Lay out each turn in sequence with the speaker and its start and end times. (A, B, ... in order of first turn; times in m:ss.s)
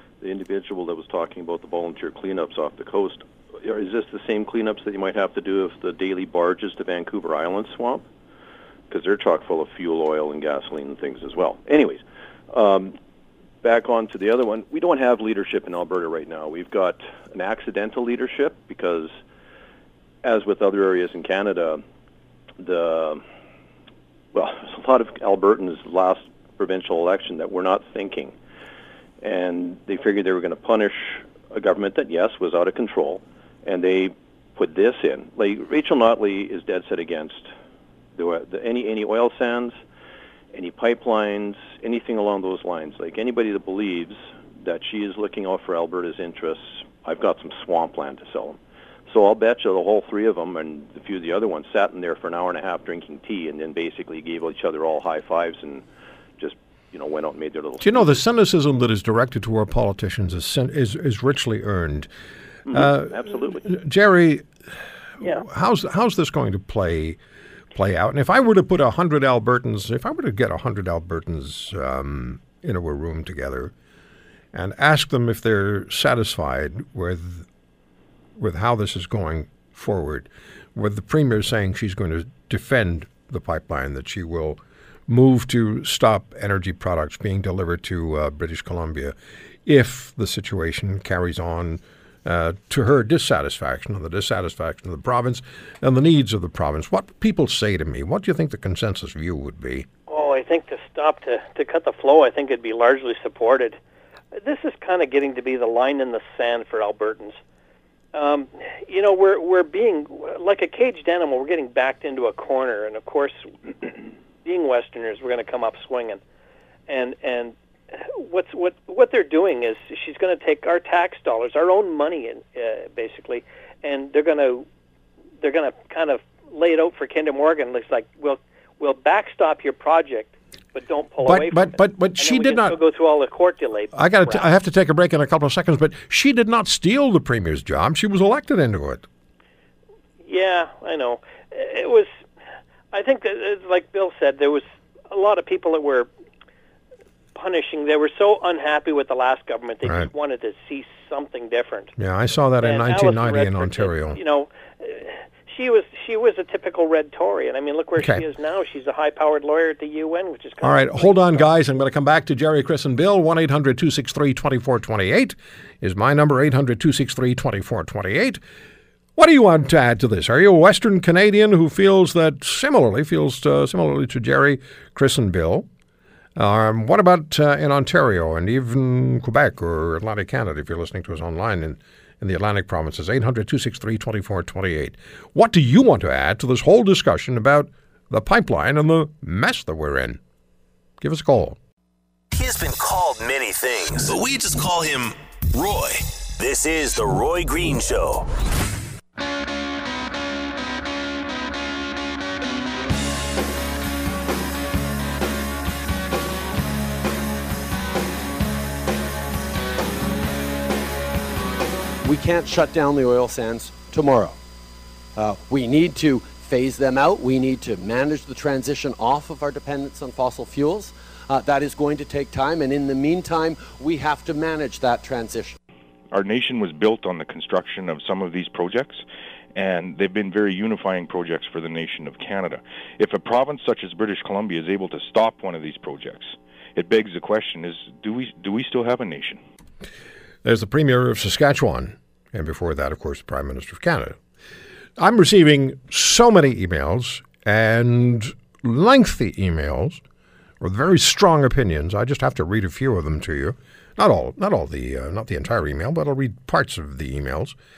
0:00.2-0:08.0 A
0:08.9-0:13.0 A
0:13.6-0:19.2 A
0:20.2-0:21.8 A
0:22.6-0:23.2 A
0:24.3-0:28.3 A
0:29.2-0:37.5 A
0:38.1-0:39.8 A
0:40.5-0:55.8 A
0:56.4-0:58.2 A
0:57.8-1:02.1 B
1:02.7-1:03.6 A
1:02.7-1:04.5 B
1:05.2-1:07.2 B
1:07.7-1:13.7 B
1:14.5-1:17.4 B
1:18.4-1:29.1 B
1:29.6-1:39.9 B
1:40.1-1:43.8 C
1:44.4-1:47.4 C
1:48.1-1:53.9 C
1:54.4-1:56.2 C
1:56.9-2:04.6 C
2:05.4-2:14.5 C
2:11.2-2:12.8 B
2:13.9-2:19.1 B
2:20.2-2:22.1 C
2:22.9-2:26.1 C
2:27.4-2:31.9 C
2:29.8-2:30.1 B
2:32.0-2:34.2 B
2:32.6-2:41.4 C
2:38.0-2:38.2 B
2:40.6-2:48.4 B
2:49.2-2:55.7 B
2:56.4-3:10.2 B
3:11.0-3:11.6 B
3:12.3-3:18.3 D
3:32.0-3:34.4 E
3:35.2-3:45.6 E
3:46.1-3:49.0 F
3:49.5-3:59.4 F
4:00.4-4:04.2 B
4:05.0-4:10.0 B
4:10.6-4:17.5 B